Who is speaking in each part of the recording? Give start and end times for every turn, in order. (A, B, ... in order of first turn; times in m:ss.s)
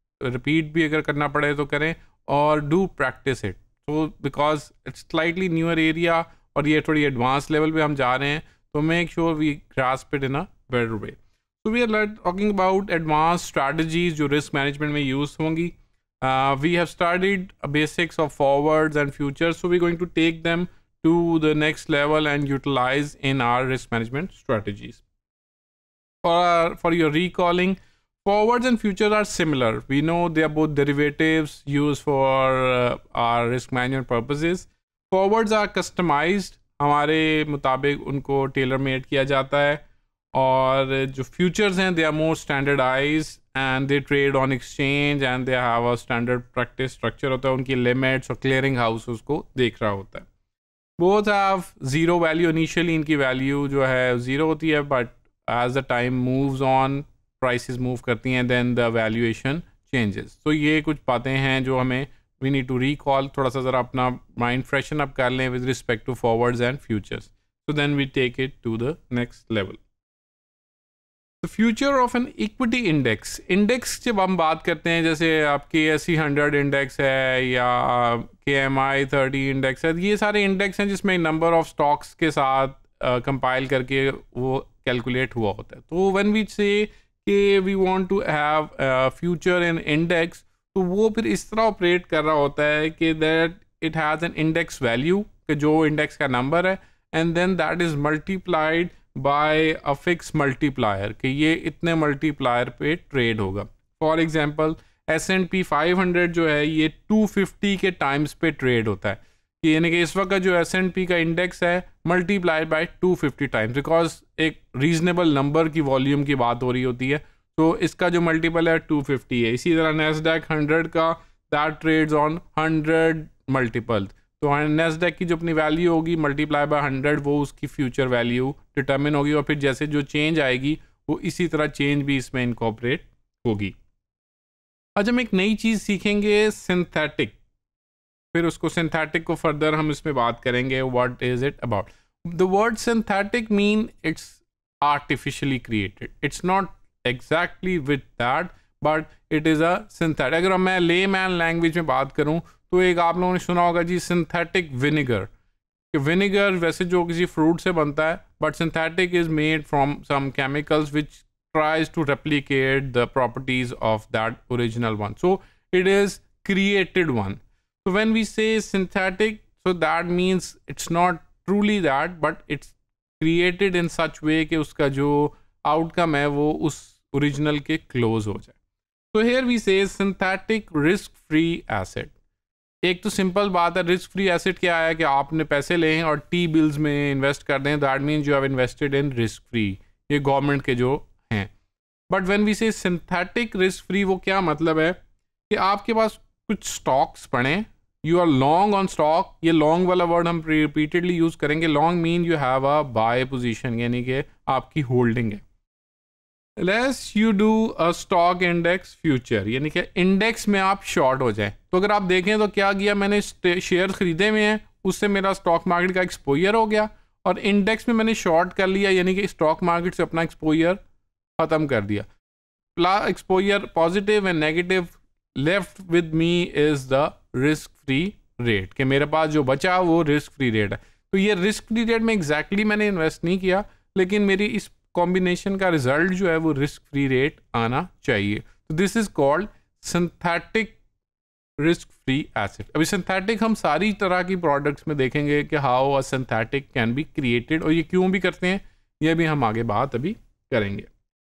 0:00.2-0:25.0 A
0:26.2-0:39.8 A
0:40.3-0:50.3 A
0:51.0-1:09.8 A
1:11.4-2:13.8 A
2:15.0-2:17.4 A
2:18.3-2:35.3 A
2:35.9-2:58.6 A
2:59.1-3:02.1 A
3:02.8-3:11.5 A
3:12.1-3:15.0 A
3:15.5-3:25.4 A
3:26.6-3:40.8 A
3:41.4-3:42.1 A
3:42.8-4:00.8 A
4:01.6-4:10.9 A